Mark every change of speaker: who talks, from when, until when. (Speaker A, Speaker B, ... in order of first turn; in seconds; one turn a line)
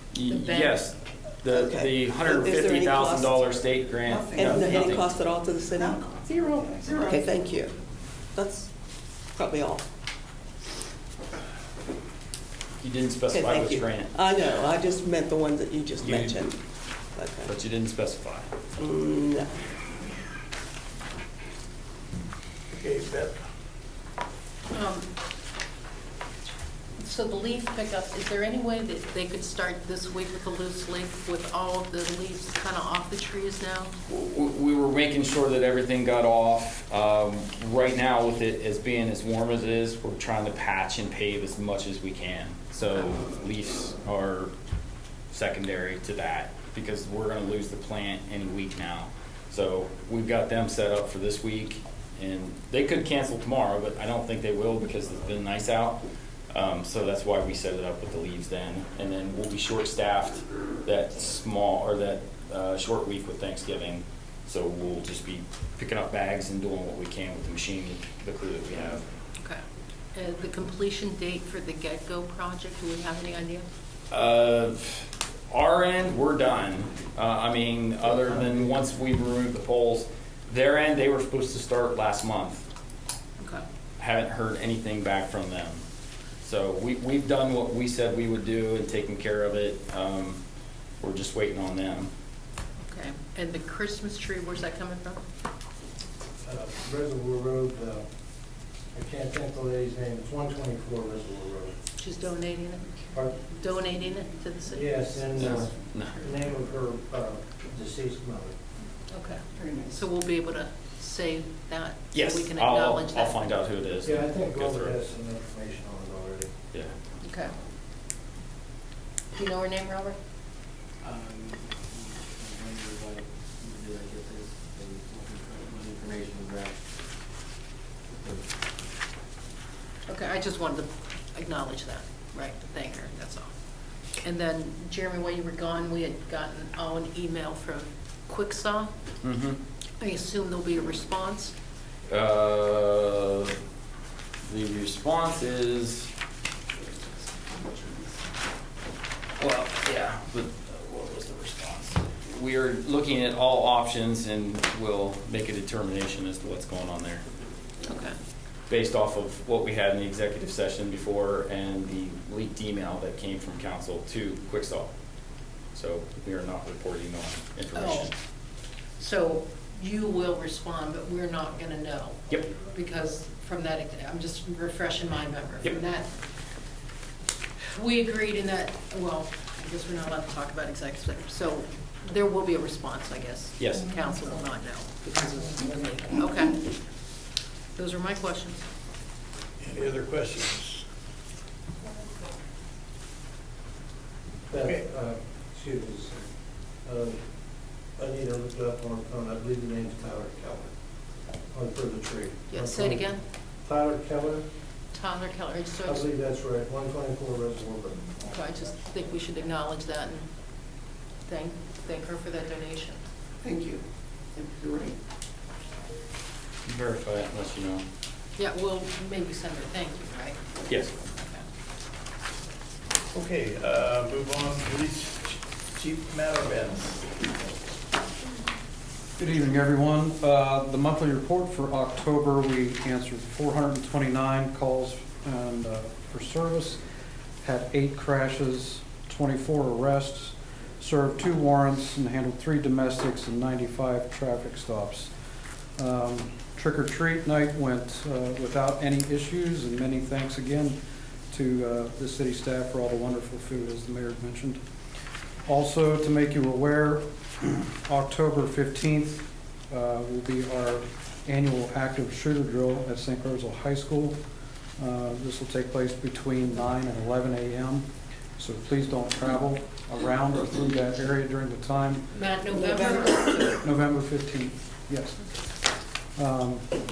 Speaker A: 0.1-5.1
Speaker B: 0.3-0.8
Speaker C: 1.5-3.3
Speaker D: 4.1-4.9
Speaker C: 4.4-7.7
Speaker D: 5.7-7.5
Speaker C: 8.3-8.7
Speaker C: 9.3-9.8
Speaker A: 12.8-14.1
Speaker C: 13.3-16.6
Speaker A: 16.0-16.4
Speaker C: 17.1-17.5
Speaker A: 17.4-18.5
Speaker C: 18.8-19.5
Speaker E: 22.7-23.4
Speaker B: 24.7-25.1
Speaker B: 27.0-33.9
Speaker A: 34.1-44.5
Speaker A: 45.3-69.0
Speaker B: 70.1-73.7
Speaker A: 74.1-82.6
Speaker A: 84.0-85.8
Speaker A: 86.4-90.4
Speaker A: 91.0-92.1
Speaker B: 92.8-95.2
Speaker F: 96.4-98.0
Speaker F: 98.9-101.7
Speaker B: 102.0-105.7
Speaker F: 104.7-108.5
Speaker A: 105.4-106.2
Speaker B: 109.1-113.5
Speaker D: 109.6-109.9
Speaker A: 112.1-115.0
Speaker F: 114.0-116.5
Speaker B: 117.2-117.5
Speaker B: 119.3-120.2
Speaker G: 121.0-126.8
Speaker G: 128.1-128.6
Speaker B: 130.1-133.5
Speaker B: 134.2-138.9
Speaker A: 139.2-139.6
Speaker B: 140.0-141.5
Speaker A: 142.1-143.5
Speaker A: 144.4-146.1
Speaker A: 149.4-157.2
Speaker B: 157.8-158.2
Speaker A: 158.7-164.9
Speaker A: 165.7-168.1
Speaker B: 167.7-168.1
Speaker B: 169.0-176.1
Speaker B: 177.7-186.7
Speaker A: 183.6-183.9
Speaker B: 187.8-188.6
Speaker E: 189.7-190.8
Speaker F: 194.5-196.1
Speaker F: 196.8-197.2
Speaker F: 198.0-200.7
Speaker F: 201.5-203.1
Speaker B: 202.5-203.2
Speaker F: 203.6-204.4
Speaker B: 204.9-206.1
Speaker F: 205.8-208.1
Speaker B: 208.2-210.3
Speaker B: 211.3-213.0
Speaker D: 213.4-213.8
Speaker D: 214.3-214.9
Speaker A: 216.7-217.8
Speaker B: 218.4-220.4
Speaker A: 220.7-220.9
Speaker B: 221.1-221.4
Speaker E: 223.1-227.1
Speaker H: 229.2-236.8
Speaker H: 237.4-245.1
Speaker H: 245.8-250.8
Speaker H: 251.3-254.6
Speaker H: 255.4-264.2
Speaker H: 264.8-272.1
Speaker B: 272.1-273.5
Speaker C: 272.5-273.6
Speaker H: 273.6-275.2
Speaker H: 276.1-276.7